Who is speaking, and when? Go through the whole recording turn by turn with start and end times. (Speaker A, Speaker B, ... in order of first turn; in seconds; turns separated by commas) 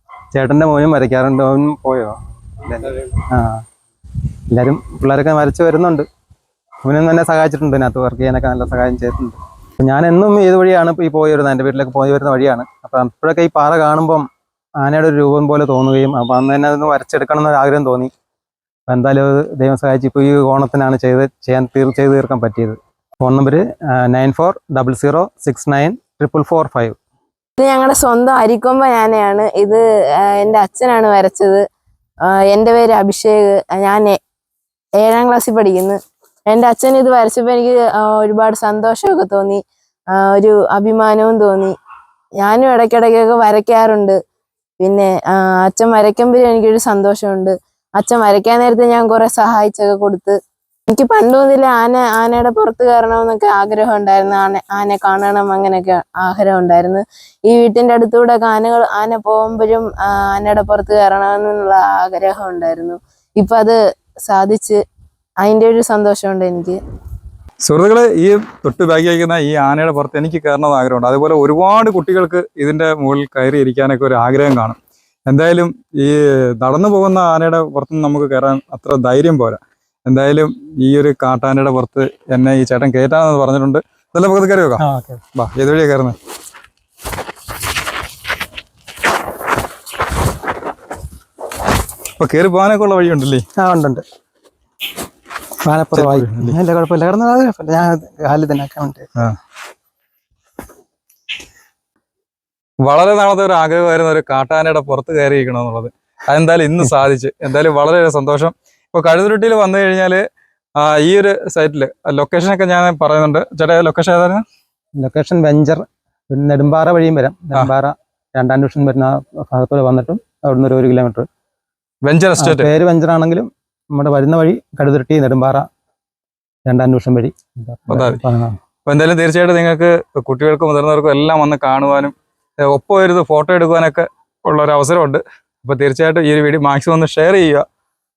Speaker A: 0.3-3.6, Speaker A: 4.5-6.0, Speaker A: 6.8-14.2, Speaker A: 14.8-18.1, Speaker A: 18.9-27.0, Speaker B: 27.6-31.6, Speaker B: 32.2-34.2, Speaker B: 35.0-39.6, Speaker B: 40.1-41.7, Speaker B: 42.4-44.2, Speaker B: 44.8-50.4, Speaker B: 50.9-64.8, Speaker B: 65.4-66.8, Speaker C: 67.6-84.8, Speaker A: 84.8-85.2, Speaker C: 85.3-86.1, Speaker C: 92.2-93.4, Speaker A: 93.6-94.0, Speaker A: 95.6-99.1, Speaker C: 95.9-96.5, Speaker C: 102.8-110.2, Speaker C: 110.8-114.4, Speaker A: 115.0-121.3, Speaker C: 122.0-122.7, Speaker A: 122.4-125.7, Speaker A: 126.7-128.6, Speaker C: 127.9-128.2, Speaker C: 128.8-132.1, Speaker C: 132.6-137.6